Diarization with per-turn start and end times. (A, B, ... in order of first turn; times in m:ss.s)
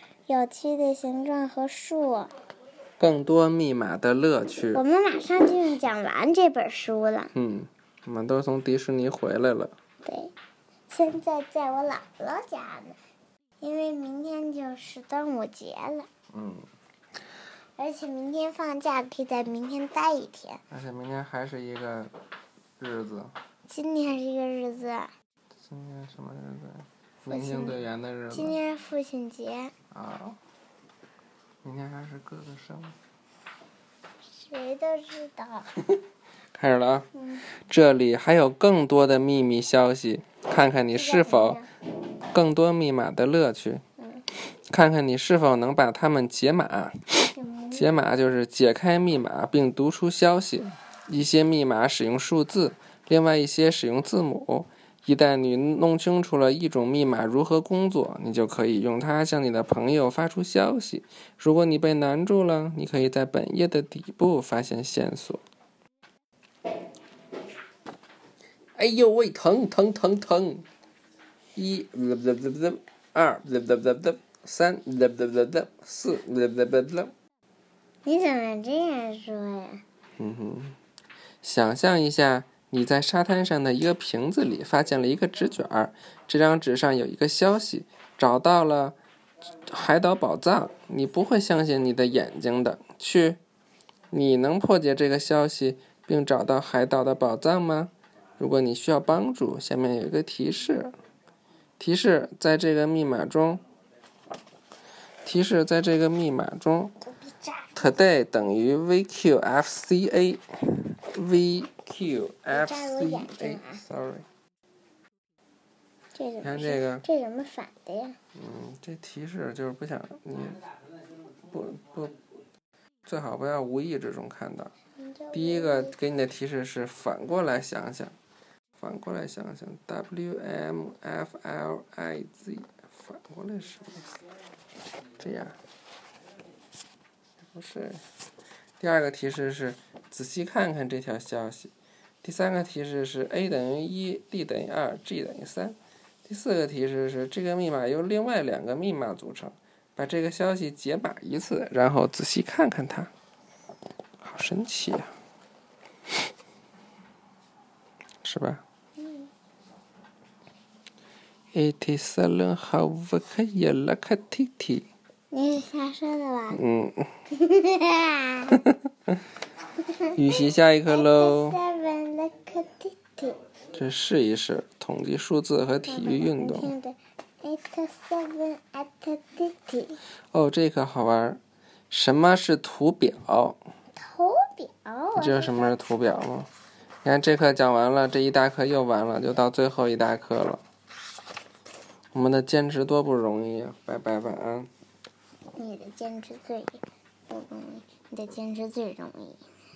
0:00.3-0:02.3 A
0:03.0-0:04.8 B
0:04.7-0:07.3 A
0:07.4-0:09.8 B
0:10.0-0:10.3 A
0:10.9-0:13.0 A
0:13.6-0:16.1 A
0:16.3-0:16.7 B
0:17.8-0:20.6 A
0:20.7-0:22.1 B
0:22.8-0:23.3 B
0:23.7-0:25.1 A
0:25.6-0:28.6 B
0:27.3-0:27.8 A
0:28.3-0:29.7 A
0:29.9-0:30.4 B
0:31.6-0:33.0 B
0:34.3-0:35.7 A
0:36.5-0:37.1 B
0:37.2-0:37.5 A
0:37.7-0:41.6 B
0:40.9-0:41.7 A
0:42.3-0:43.8 B
0:44.0-0:44.2 A
0:44.7-1:05.4 B
0:47.3-0:48.0 A
1:08.8-1:10.7 B
1:11.6-1:17.1 B
1:18.0-1:19.8 A
1:20.2-1:20.8 B
1:21.4-1:29.0 B
1:29.7-1:33.4 B
1:34.1-1:40.9 B
1:41.8-1:43.6 B
1:45.2-1:46.9 B
1:47.1-1:48.0 A
1:47.8-1:54.3 B
1:52.5-1:53.8 A
1:56.2-1:58.2 A
1:56.4-1:57.0 B
1:58.4-2:00.7 B
2:01.4-2:02.2 B
2:03.1-2:04.7 B
2:05.0-2:06.0 A
2:05.3-2:08.1 B
2:08.8-2:14.2 B
2:15.2-2:15.6 B
2:17.4-2:18.0 B
2:18.8-2:33.1 B
2:34.2-2:35.1 B
2:38.2-2:38.6 B
2:39.0-2:39.3 A
2:41.5-2:44.9 B
2:45.3-2:46.6 A
2:46.5-2:47.1 B
2:47.3-2:48.6 A
2:48.5-2:49.2 B
2:49.8-2:50.2 A
2:50.2-2:51.6 B
2:50.9-2:53.4 A
2:53.7-2:56.7 B
2:55.9-3:00.0 A
3:00.3-3:03.6 B
3:04.0-3:05.8 A
3:05.2-3:06.5 B
3:07.0-3:10.6 B
3:12.1-3:14.7 B
3:15.6-3:19.5 A